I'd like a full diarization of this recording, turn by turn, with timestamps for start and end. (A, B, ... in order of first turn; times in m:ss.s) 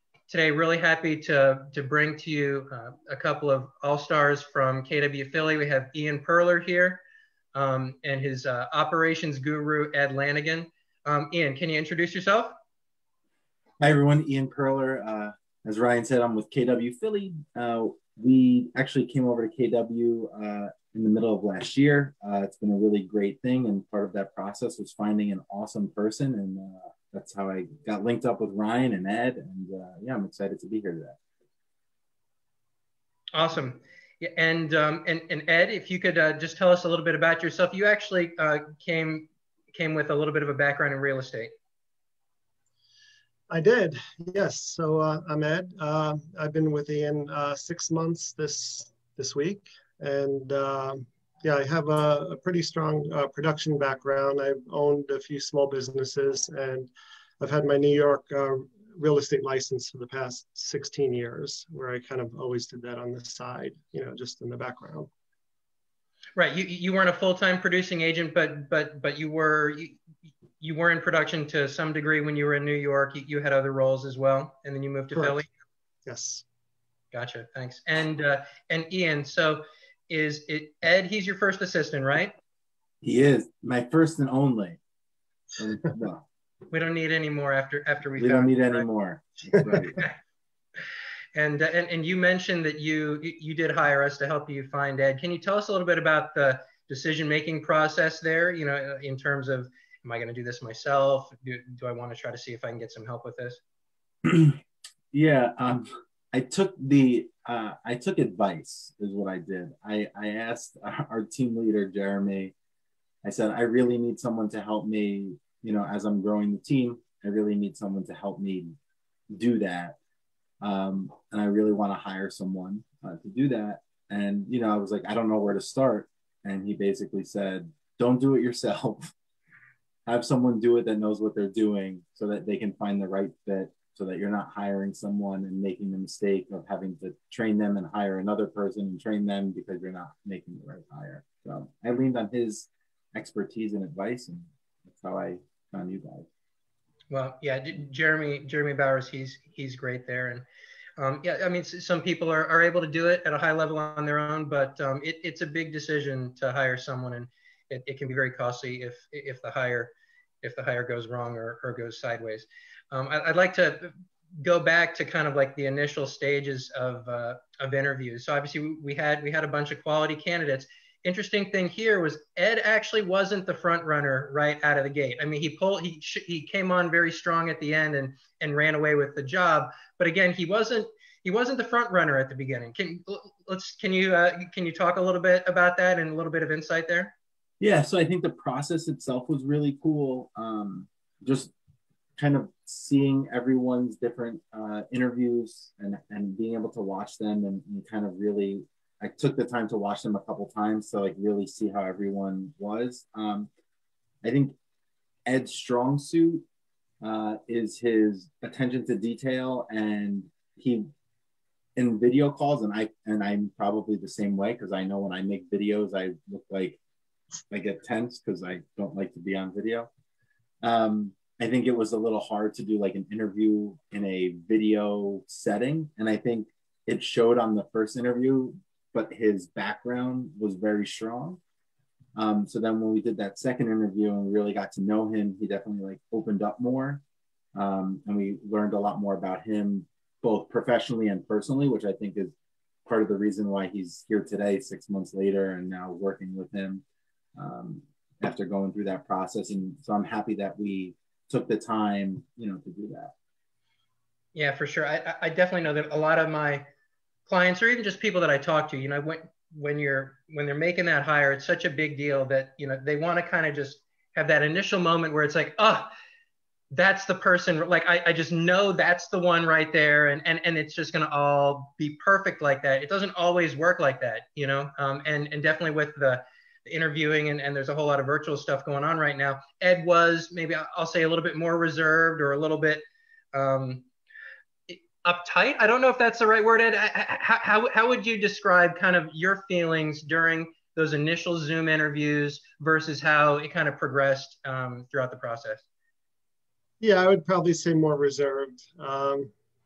0:00.3-0:07.0 A
0:07.5-0:12.6 A
0:13.8-0:31.2 B
0:33.3-0:41.5 A
0:43.5-1:05.1 C
1:06.4-1:10.0 A
1:10.6-1:15.5 A
1:15.1-1:15.4 C
1:16.1-1:16.4 C
1:17.1-1:22.3 A
1:23.0-1:24.8 B
1:25.6-1:26.3 B
1:26.7-1:28.9 A
1:28.2-1:30.0 B
1:29.6-1:30.1 A
1:31.4-1:43.6 A
1:44.2-1:44.6 B
1:45.1-1:52.5 B
1:53.2-1:58.8 B
1:59.3-2:00.0 B
2:00.6-2:09.1 B
2:10.1-2:26.3 B
2:27.1-2:30.5 A
2:31.0-3:07.1 A
3:07.6-3:11.5 B
3:12.2-3:23.5 B
3:24.2-3:24.6 B
3:25.3-3:26.5 B
3:27.0-3:30.9 B
3:31.8-3:36.8 B
3:37.5-3:39.9 B
3:40.6-3:51.4 B
3:52.2-3:57.0 B
3:57.6-4:02.3 B
4:02.9-4:06.8 B
4:07.4-4:13.1 B
4:14.4-4:16.7 A
4:17.3-4:25.9 A
4:26.7-4:43.9 A
4:44.7-4:55.6 A
4:56.8-4:59.3 C